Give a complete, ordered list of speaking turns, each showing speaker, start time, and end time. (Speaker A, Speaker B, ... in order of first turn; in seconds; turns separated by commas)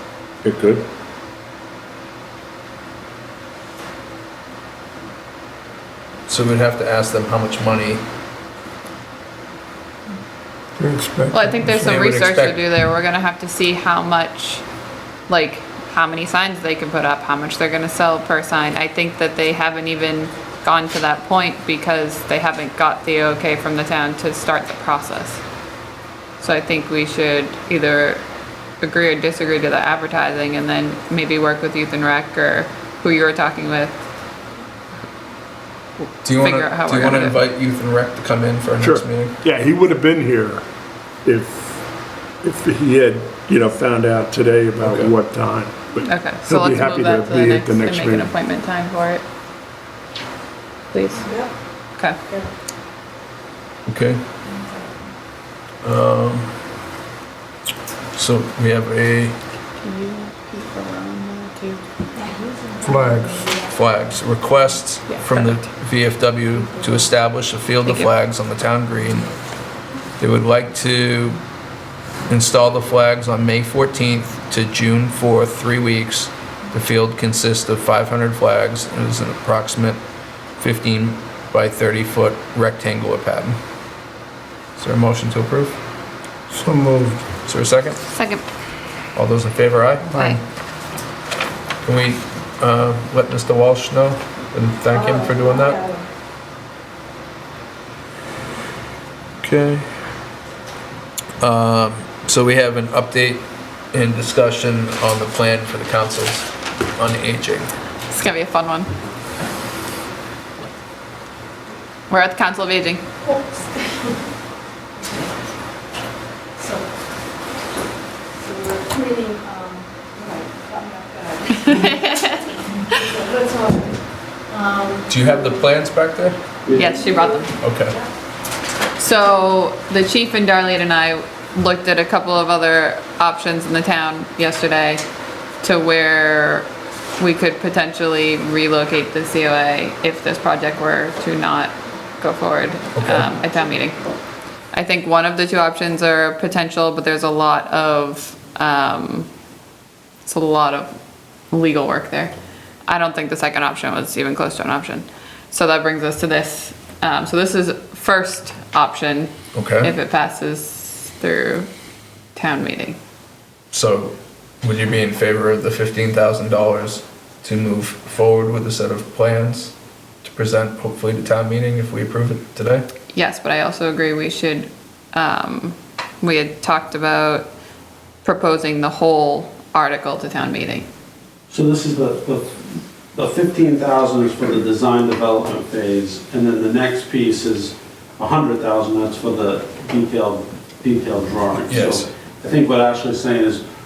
Speaker A: 6.3-8.0, Speaker B: 10.8-11.9, Speaker C: 11.3-14.6, Speaker A: 11.8-12.6, Speaker C: 15.3-25.4, Speaker C: 26.4-28.2, Speaker C: 28.8-34.0, Speaker A: 36.2-39.4, Speaker C: 36.3-37.4, Speaker D: 38.8-40.6, Speaker D: 41.2-41.9, Speaker D: 42.4-48.3, Speaker A: 44.8-45.1, Speaker C: 46.0-49.2, Speaker C: 50.9-51.3, Speaker E: 51.1-51.5, Speaker A: 53.9-54.2, Speaker A: 55.8-56.5, Speaker A: 58.1-59.4, Speaker C: 59.8-61.8, Speaker E: 62.2-63.7, Speaker B: 62.8-63.5, Speaker A: 63.7-69.3, Speaker C: 65.2-65.6, Speaker C: 67.8-68.1, Speaker A: 70.2-71.4, Speaker A: 72.3-80.0, Speaker A: 80.6-83.6, Speaker A: 84.8-85.8, Speaker B: 86.5-87.2, Speaker A: 87.5-88.0, Speaker C: 88.1-88.4, Speaker A: 89.1-90.1, Speaker B: 90.1-90.4, Speaker C: 90.1-90.4, Speaker A: 91.8-95.8, Speaker E: 95.0-96.0, Speaker A: 99.4-99.9, Speaker A: 101.4-107.7, Speaker C: 108.1-108.9, Speaker C: 112.1-113.0, Speaker E: 118.4-124.0, Speaker C: 121.6-122.3, Speaker E: 124.5-125.1, Speaker A: 125.1-126.4, Speaker F: 126.7-127.0, Speaker C: 126.7-127.6, Speaker A: 127.6-128.0, Speaker C: 129.0-135.1, Speaker C: 135.6-136.7, Speaker C: 137.2-144.0, Speaker A: 142.9-143.3, Speaker C: 144.7-149.3, Speaker C: 150.2-150.9, Speaker C: 151.5-152.3, Speaker C: 152.9-161.7, Speaker A: 159.5-159.9, Speaker C: 162.3-163.0, Speaker A: 163.7-172.9, Speaker C: 173.1-177.5, Speaker C: 178.2-180.8, Speaker F: 181.5-193.6, Speaker A: 191.7-192.1